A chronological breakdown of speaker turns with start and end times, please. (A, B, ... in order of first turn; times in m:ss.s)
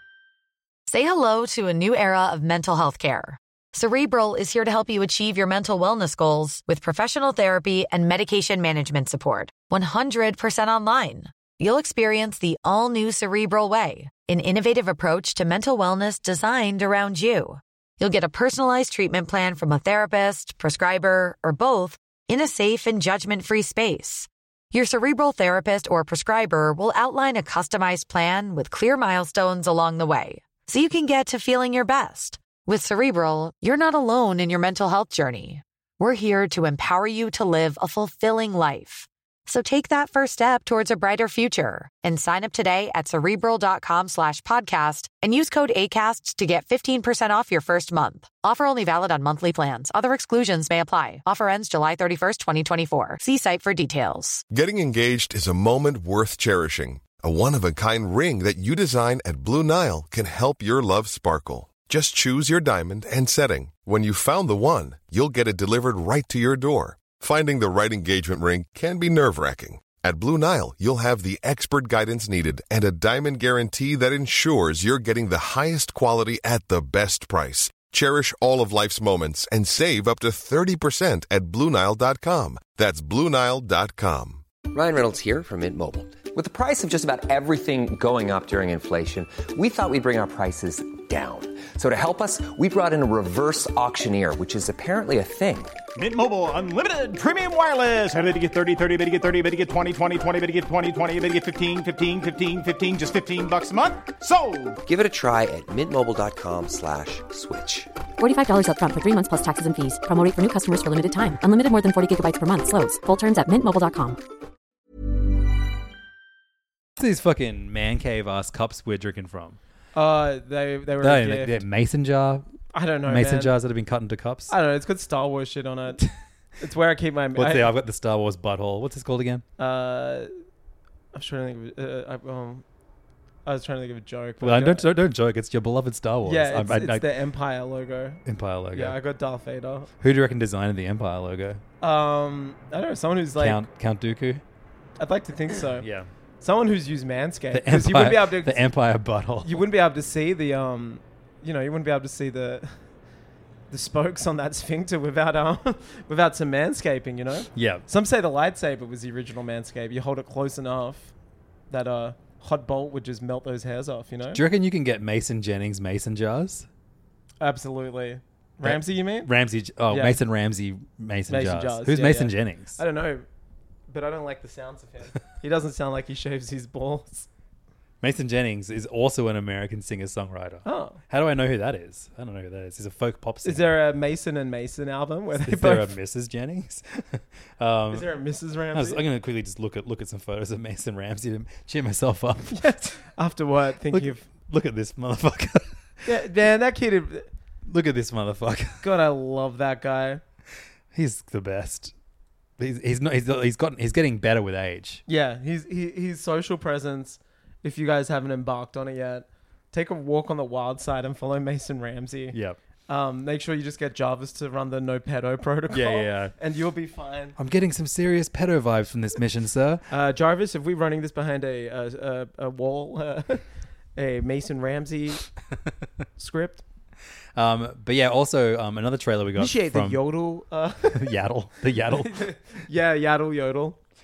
0:00.9-0:54.4 A
0:54.5-1:24.4 B
1:24.7-1:35.8 C
1:35.9-1:44.8 D
1:44.8-1:47.9 C
1:48.2-1:54.2 E
1:57.0-1:59.6 F
1:59.9-2:01.6 G
2:01.0-2:02.5 F
2:02.7-2:03.5 G
2:03.0-2:04.5 F
2:04.5-2:06.0 G
2:06.6-2:07.7 G
2:07.3-2:09.4 F
2:09.6-2:10.3 G
2:11.1-2:12.6 G
2:13.4-2:14.9 G
2:14.4-2:17.1 F
2:16.2-2:18.2 G
2:18.2-2:19.0 F
2:18.7-2:19.9 G
2:20.0-2:21.6 F
2:21.8-2:23.6 G
2:23.4-2:24.4 F
2:25.0-2:25.8 G
2:25.8-2:26.1 F
2:26.4-2:28.6 G
2:27.5-2:29.6 F
2:29.4-2:32.7 G
2:33.7-2:41.1 G
2:37.5-2:37.8 F
2:41.7-2:44.4 G
2:44.3-2:46.7 F
2:47.4-2:49.3 G
2:48.6-2:52.8 F
2:49.9-2:50.2 G
2:51.3-2:53.2 G
2:53.9-2:57.3 G
2:58.0-3:03.7 F
3:00.6-3:01.0 G
3:03.4-3:05.9 G
3:05.4-3:08.1 F
3:07.9-3:09.0 G
3:08.7-3:12.6 F
3:12.5-3:14.2 G
3:13.9-3:15.8 F
3:16.0-3:17.3 G
3:17.6-3:18.9 F
3:18.8-3:20.2 G
3:20.9-3:21.9 F
3:22.6-3:25.0 F
3:25.1-3:32.4 G
3:32.3-3:32.6 F
3:32.9-3:37.4 G
3:35.7-3:36.3 F
3:37.4-3:39.8 F
3:39.9-3:43.4 G
3:44.0-3:45.2 G
3:46.2-3:46.6 G
3:47.4-3:50.0 F
3:49.4-3:51.1 G
3:50.9-3:52.3 F
3:51.9-3:53.8 G